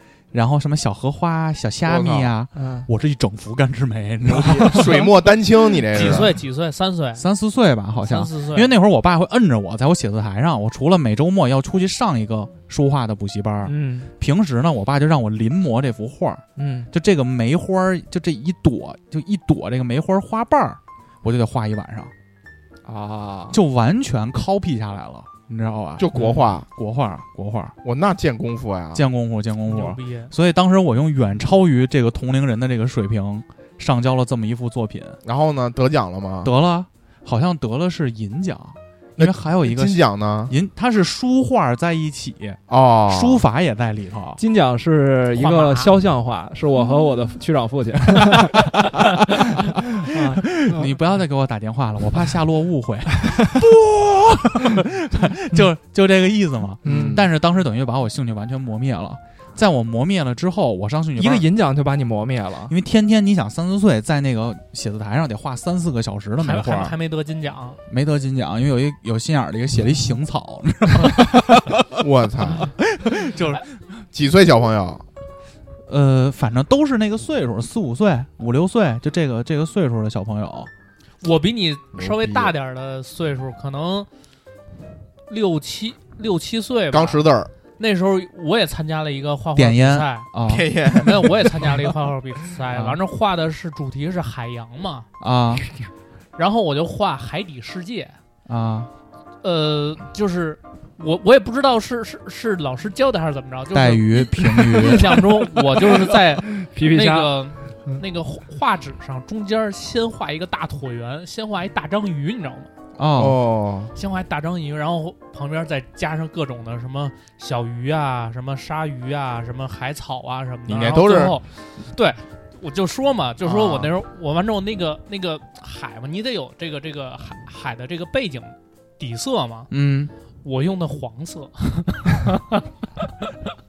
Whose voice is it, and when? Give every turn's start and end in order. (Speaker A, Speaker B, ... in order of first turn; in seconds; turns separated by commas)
Speaker A: 0.3-5.1, Speaker B: 1.9-2.3, Speaker C: 2.5-2.9, Speaker B: 4.2-6.3, Speaker D: 5.9-7.2, Speaker A: 6.0-6.2, Speaker A: 7.2-22.1, Speaker D: 8.0-8.7, Speaker C: 13.6-14.1, Speaker C: 16.6-16.9, Speaker C: 22.9-23.6, Speaker A: 23.5-26.1, Speaker B: 26.0-26.7, Speaker C: 26.1-26.5, Speaker A: 26.6-27.7, Speaker B: 27.8-29.0, Speaker A: 28.9-35.2, Speaker D: 29.7-30.3, Speaker B: 35.2-36.5, Speaker A: 36.4-44.4, Speaker B: 39.2-40.5, Speaker B: 42.7-43.4, Speaker C: 44.4-50.9, Speaker D: 45.4-46.0, Speaker A: 49.0-49.6, Speaker A: 50.2-61.5, Speaker C: 56.8-57.2, Speaker B: 56.9-57.3, Speaker C: 61.2-62.7, Speaker A: 62.7-67.0, Speaker D: 66.4-67.8, Speaker A: 67.9-73.7, Speaker B: 72.0-72.8, Speaker B: 74.1-75.0, Speaker A: 75.9-80.7, Speaker D: 81.2-84.1, Speaker B: 82.0-82.5, Speaker D: 85.3-87.2, Speaker B: 86.9-87.5, Speaker D: 87.8-90.3, Speaker A: 89.5-90.7, Speaker B: 90.5-91.6, Speaker D: 90.8-95.1, Speaker A: 92.7-93.0, Speaker A: 95.2-95.7, Speaker D: 96.4-98.2, Speaker A: 98.5-98.9, Speaker D: 99.4-112.7, Speaker A: 103.7-105.2, Speaker C: 104.9-107.3, Speaker A: 113.0-113.4, Speaker B: 113.2-113.9, Speaker D: 114.0-129.7, Speaker B: 120.7-121.4, Speaker B: 123.4-123.9, Speaker A: 129.7-130.1, Speaker D: 130.4-132.7